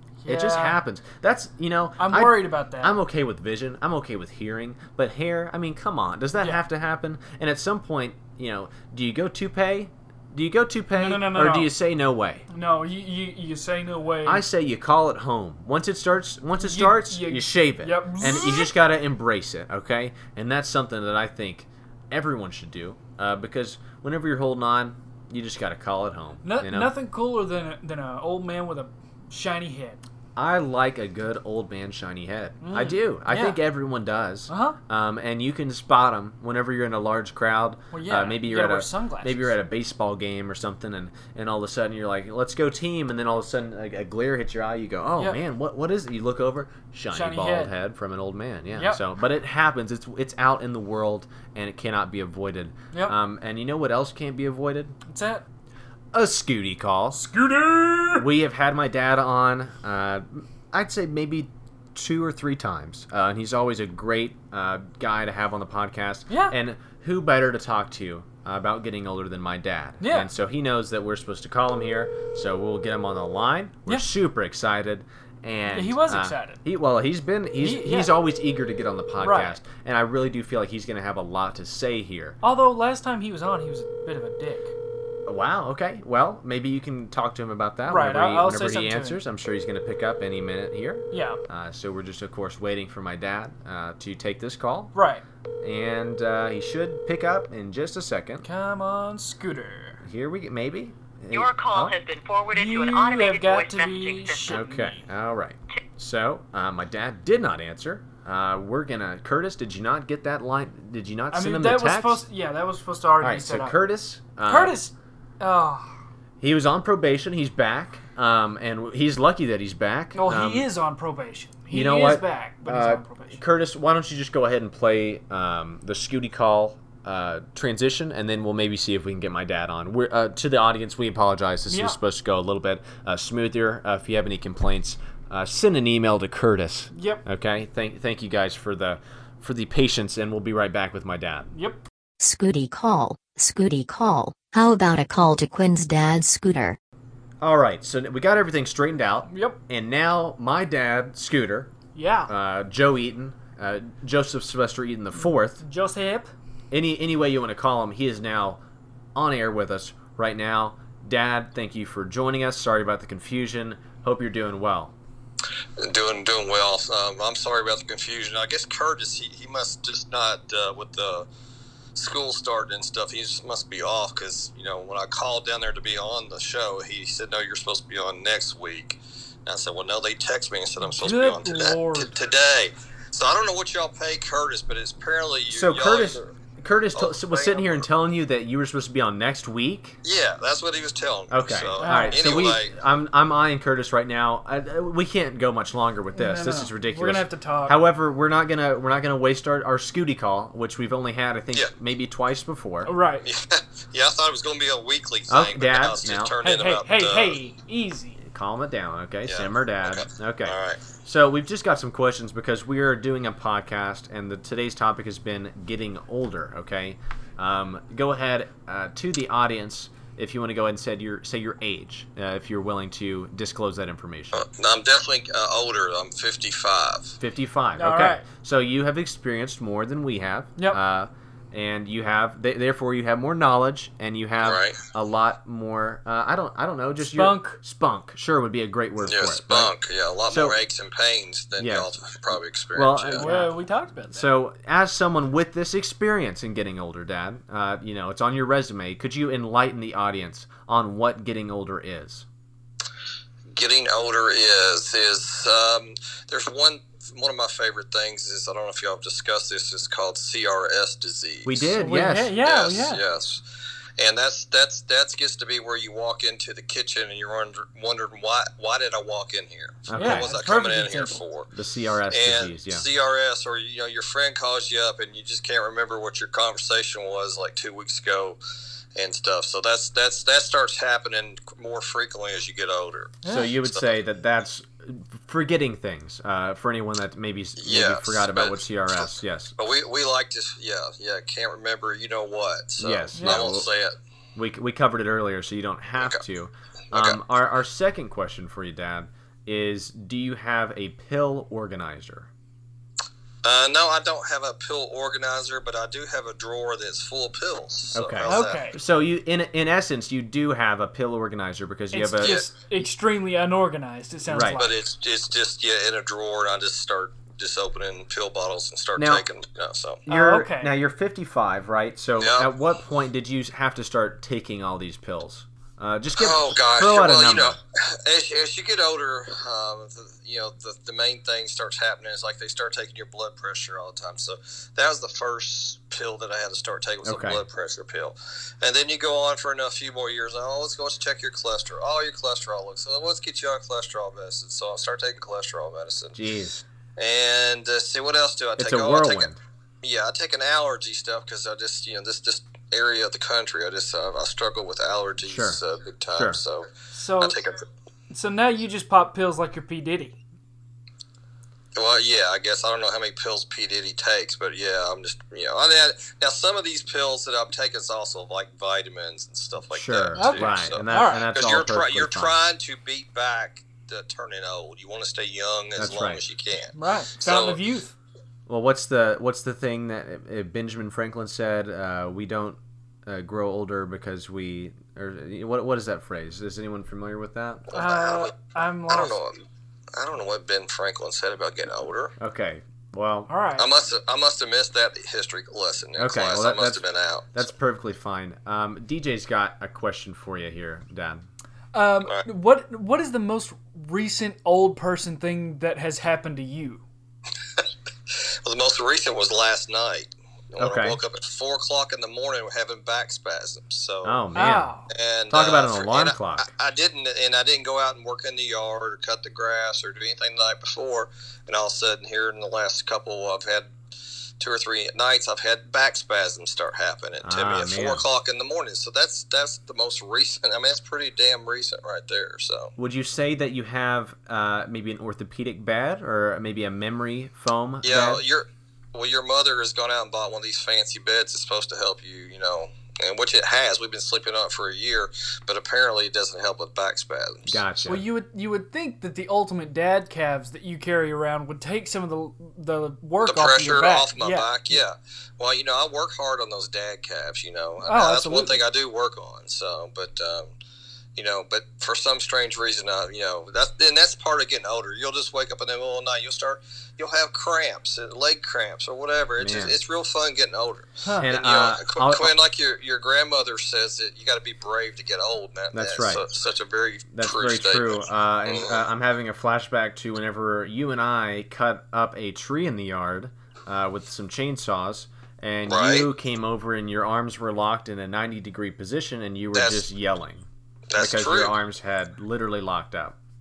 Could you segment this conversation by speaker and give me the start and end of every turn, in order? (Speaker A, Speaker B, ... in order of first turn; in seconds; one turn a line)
Speaker A: 0.2-0.8
Speaker B: 0.3-12.4
Speaker A: 2.0-3.0
Speaker A: 10.9-11.7
Speaker A: 12.5-14.4
Speaker B: 14.2-26.9
Speaker A: 16.6-18.7
Speaker A: 26.4-30.0
Speaker B: 30.4-55.0
Speaker A: 32.6-33.6
Speaker A: 34.5-34.8
Speaker A: 37.9-39.5
Speaker A: 47.1-47.7
Speaker A: 48.7-49.0
Speaker A: 55.0-55.4
Speaker B: 56.1-57.3
Speaker A: 57.1-58.3
Speaker B: 58.1-82.4
Speaker A: 66.3-66.5
Speaker A: 70.0-70.3
Speaker A: 75.7-76.6
Speaker A: 77.6-78.2
Speaker A: 79.2-79.6
Speaker A: 82.4-84.7
Speaker B: 85.2-94.9
Speaker A: 87.8-89.2
Speaker A: 91.1-91.4
Speaker A: 94.9-95.2
Speaker B: 95.6-98.5
Speaker A: 98.4-100.0
Speaker B: 100.0-102.0
Speaker C: 101.3-104.6
Speaker A: 102.5-105.0
Speaker B: 104.5-112.2
Speaker A: 111.3-113.8
Speaker B: 113.2-114.8
Speaker A: 114.4-116.0
Speaker B: 116.4-120.7
Speaker A: 120.1-123.4
Speaker B: 121.7-141.5
Speaker A: 131.7-132.0
Speaker A: 136.9-137.2
Speaker A: 141.5-141.8
Speaker D: 142.2-146.8
Speaker B: 147.4-151.7
Speaker A: 149.3-149.6
Speaker A: 151.9-152.3
Speaker B: 152.3-155.6
Speaker A: 155.6-156.3
Speaker B: 156.7-158.6
Speaker B: 159.1-164.9
Speaker E: 165.8-171.2
Speaker E: 171.9-186.3
Speaker A: 180.8-182.2
Speaker B: 185.5-190.0
Speaker E: 186.9-187.8
Speaker E: 190.0-192.7
Speaker B: 191.3-202.9
Speaker A: 191.8-192.3
Speaker A: 196.1-197.8
Speaker A: 202.8-203.3
Speaker E: 203.2-207.4
Speaker B: 205.3-206.3
Speaker A: 206.4-208.2
Speaker B: 208.2-224.4
Speaker E: 209.3-210.8
Speaker E: 224.3-227.2
Speaker B: 227.2-239.7
Speaker A: 227.8-228.2
Speaker E: 234.4-234.8
Speaker A: 237.0-237.6
Speaker E: 239.0-243.3
Speaker B: 240.3-240.6
Speaker B: 241.6-241.9
Speaker B: 242.7-243.5
Speaker A: 243.2-244.3
Speaker B: 244.1-252.2
Speaker E: 253.5-261.7
Speaker B: 261.4-262.4
Speaker A: 261.8-263.0
Speaker E: 262.4-263.4
Speaker E: 264.0-271.5
Speaker B: 269.9-270.3
Speaker A: 269.9-271.2
Speaker B: 271.5-272.8
Speaker E: 272.1-278.4
Speaker E: 278.9-283.8
Speaker A: 283.2-283.5
Speaker B: 283.2-289.5
Speaker E: 287.6-293.9
Speaker B: 292.8-293.7
Speaker A: 293.1-293.5
Speaker B: 294.4-302.3
Speaker E: 296.9-297.2
Speaker E: 303.4-308.6
Speaker B: 307.9-312.4
Speaker A: 308.2-308.8
Speaker A: 311.9-314.8
Speaker B: 314.3-314.6
Speaker E: 314.6-320.0
Speaker B: 319.0-319.2
Speaker B: 320.0-327.6
Speaker A: 320.1-320.7
Speaker E: 322.2-322.5
Speaker E: 326.2-346.2
Speaker B: 337.0-337.4
Speaker B: 346.1-346.6
Speaker E: 347.0-349.3
Speaker B: 348.6-349.4
Speaker E: 349.8-357.6
Speaker B: 355.2-355.6
Speaker B: 356.1-356.4
Speaker A: 356.9-357.4
Speaker A: 358.1-360.2
Speaker E: 361.8-377.6
Speaker B: 369.7-372.4
Speaker A: 370.1-371.3
Speaker B: 375.8-376.2
Speaker A: 376.7-377.9
Speaker B: 378.5-387.7
Speaker E: 387.7-388.3
Speaker A: 387.7-389.1
Speaker E: 388.9-392.1
Speaker B: 392.2-393.3
Speaker A: 393.3-393.7
Speaker E: 393.6-397.5
Speaker B: 396.0-401.2
Speaker A: 401.7-406.8
Speaker E: 407.6-414.2
Speaker B: 410.6-411.0
Speaker B: 414.0-414.7
Speaker A: 414.3-414.9
Speaker E: 414.9-423.7
Speaker B: 415.3-416.5
Speaker E: 424.4-432.7
Speaker B: 427.2-428.1
Speaker B: 432.8-438.2
Speaker E: 437.8-447.6
Speaker B: 447.5-448.1
Speaker A: 447.9-454.5
Speaker E: 453.2-460.5
Speaker A: 457.8-458.6
Speaker E: 461.1-478.8
Speaker B: 469.4-469.8
Speaker B: 471.2-472.3
Speaker B: 475.7-476.3
Speaker B: 477.1-493.1
Speaker E: 485.7-486.1
Speaker E: 489.5-489.8
Speaker E: 490.9-491.6